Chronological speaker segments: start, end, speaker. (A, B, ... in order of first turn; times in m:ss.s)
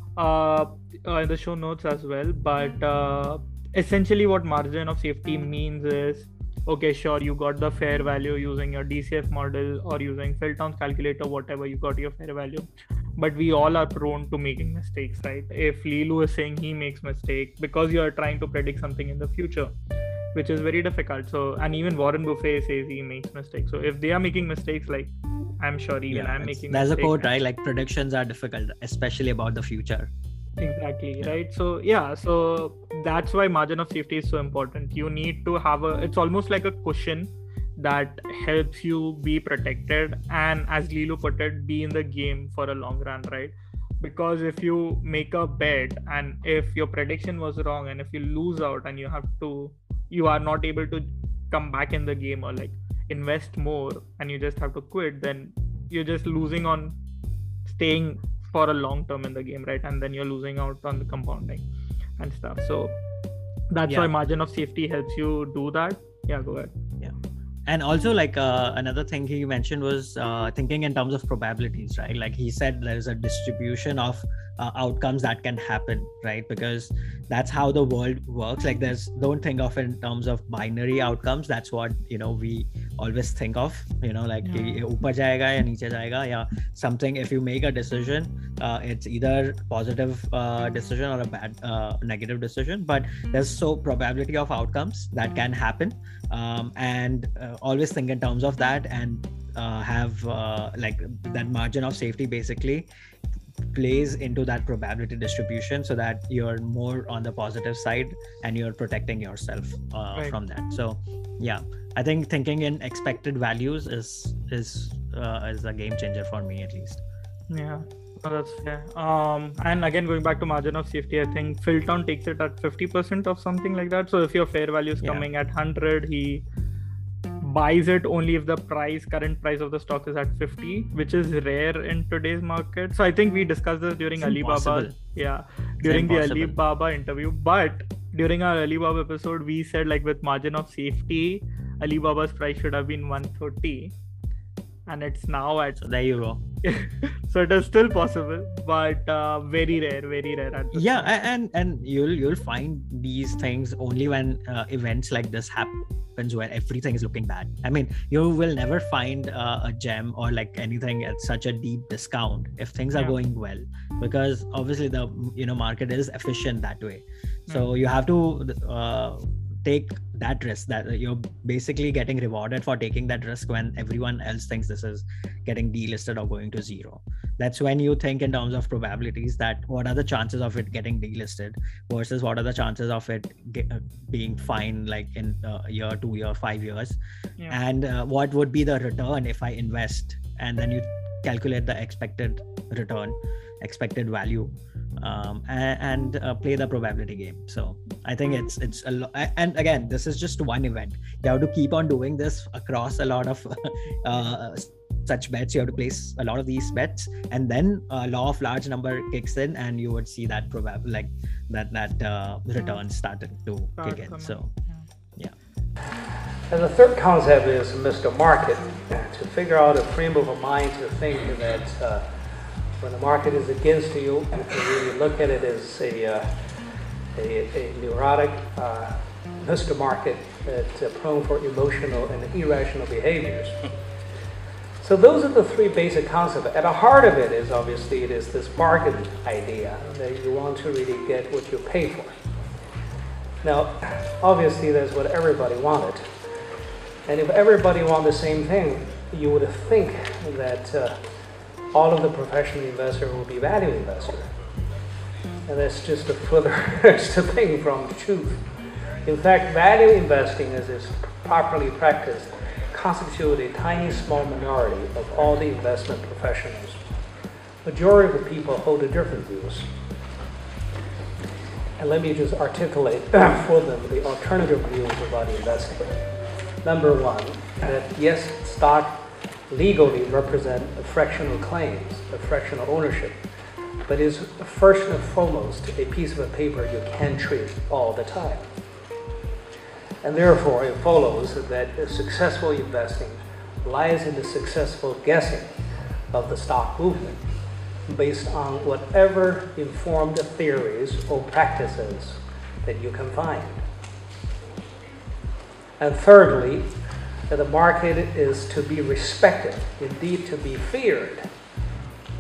0:00.2-0:19.7 A
0:20.3-0:27.3 A
0:26.1-0:30.1 B
0:30.6-0:57.0 A
0:57.7-1:01.7 A
1:02.2-1:03.0 A
1:03.7-1:06.7 A
1:07.7-1:42.9 B
1:43.7-1:57.0 B
1:57.5-2:06.5 A
2:05.0-2:05.3 B
2:07.4-2:24.0 A
2:14.2-2:15.0 B
2:15.8-2:16.6 B
2:24.9-2:25.8 A
2:25.8-2:26.4 B
2:26.6-2:31.1 A
2:30.7-3:07.0 B
3:07.5-3:34.5 B
3:24.1-3:24.4 A
3:33.8-3:34.9 A
3:36.5-3:42.1 C
3:42.8-3:46.3 C
3:47.2-3:53.6 C
3:54.8-4:02.2 C
4:03.4-4:06.0 C
4:07.1-4:11.0 C
4:11.7-4:14.3 C
4:15.5-4:18.4 C
4:19.0-4:26.8 C
4:27.6-4:29.7 C
4:31.8-4:36.0 C
4:36.6-4:43.2 C
4:43.9-4:48.5 C
4:50.0-4:55.5 C
4:56.1-4:57.2 C
4:57.9-5:03.6 C
5:05.8-5:06.7 C
5:07.3-5:11.2 C